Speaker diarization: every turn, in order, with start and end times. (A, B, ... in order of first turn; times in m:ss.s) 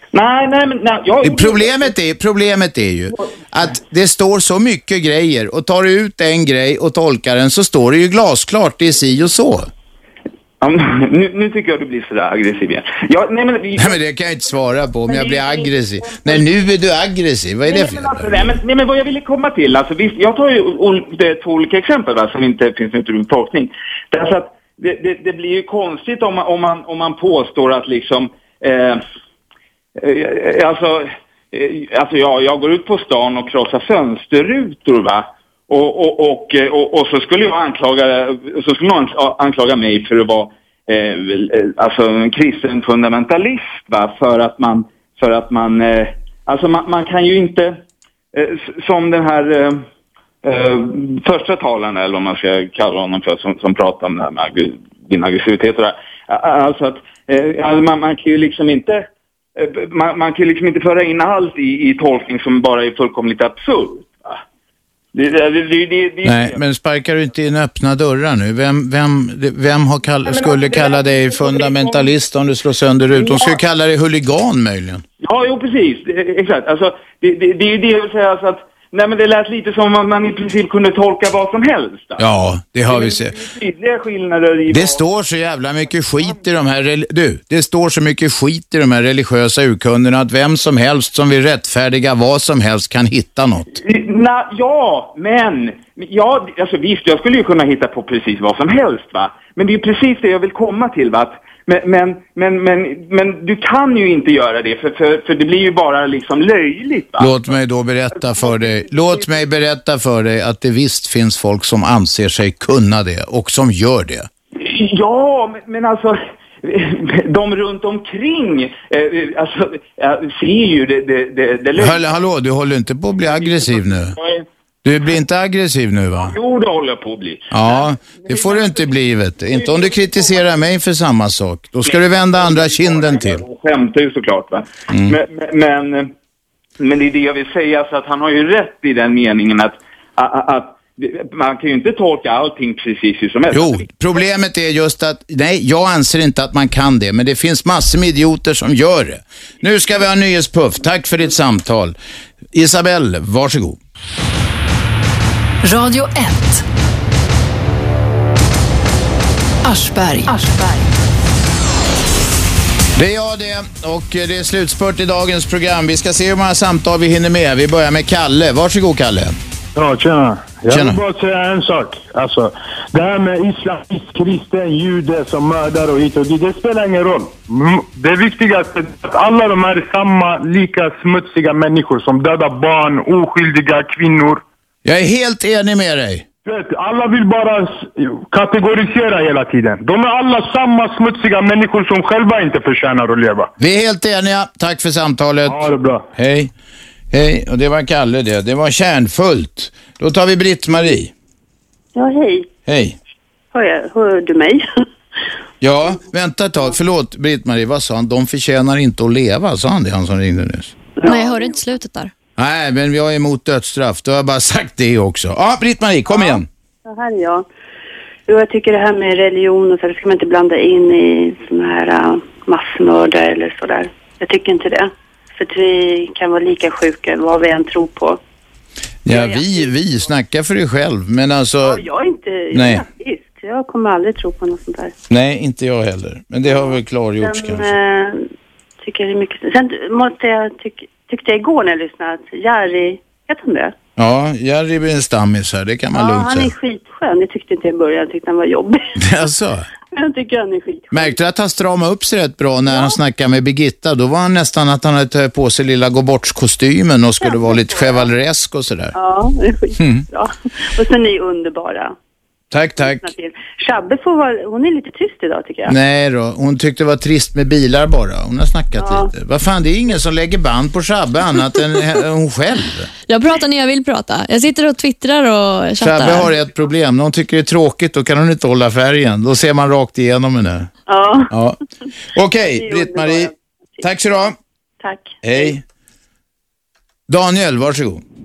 0:00.1-0:01.9 A
0:01.2-0:09.7 B
0:10.6-0:14.0 A
0:13.8-0:18.4 B
0:15.1-0:16.5 A
0:17.6-0:29.0 A
0:30.0-0:47.8 A
0:48.3-0:49.8 A
0:50.4-0:59.0 A
0:59.6-1:04.4 A
1:05.1-1:06.6 A
1:06.2-1:15.0 B
1:10.2-1:12.1 A
1:13.1-1:13.6 A
1:15.2-1:22.3 A
1:22.2-1:23.3 B
1:22.9-1:25.0 A
1:24.7-1:33.8 B
1:33.8-1:47.5 A
1:47.2-1:54.3 B
1:48.2-1:49.2 A
1:54.6-2:02.0 A
2:01.8-2:04.2 B
2:03.2-2:04.4 A
2:04.8-2:06.3 B
2:06.2-2:08.8 A
2:07.5-2:13.4 B
2:09.5-2:10.4 A
2:11.9-2:16.1 A
2:16.8-2:23.9 A
2:23.5-2:32.0 B
2:32.5-2:33.8 B
2:35.6-2:36.6 C
2:39.6-2:41.0 C
2:43.0-2:49.4 B
2:49.8-2:50.1 D
2:50.6-2:52.4 D
2:50.7-2:51.0 B
2:53.0-3:04.4 D
3:04.8-3:06.2 B
3:06.5-3:07.8 D
3:08.3-3:13.4 D
3:13.6-3:16.5 B
3:15.6-3:16.0 D
3:17.1-3:21.1 B
3:22.0-3:22.5 E
3:22.7-3:23.0 B
3:23.5-3:24.6 E
3:25.6-3:30.7 B
3:31.0-3:31.6 E
3:31.0-3:32.1 F
3:32.4-3:36.5 B
3:36.8-3:37.4 E
3:38.3-3:48.2 E
3:49.0-3:51.8 B
3:49.1-3:49.6 E
3:51.6-3:54.9 E
3:52.5-3:52.8 B
3:55.1-3:57.7 B
3:56.5-3:58.2 E
3:58.8-4:03.7 E
4:04.0-4:06.5 B
4:05.9-4:08.8 E
4:09.0-4:09.7 B
4:10.0-4:11.2 E
4:10.9-4:18.9 B
4:17.2-4:18.1 E
4:18.9-4:22.0 E
4:19.8-4:20.0 B
4:22.5-4:23.0 B
4:22.8-4:25.7 E
4:25.7-4:32.9 B
4:28.8-4:29.1 E
4:33.1-4:36.3 F
4:35.8-4:40.7 B
4:40.9-4:41.3 E
4:41.3-4:41.6 B
4:42.2-4:44.4 B
4:42.5-4:44.3 E
4:44.8-4:45.5 E
4:45.2-4:45.6 B
4:47.1-4:48.0 B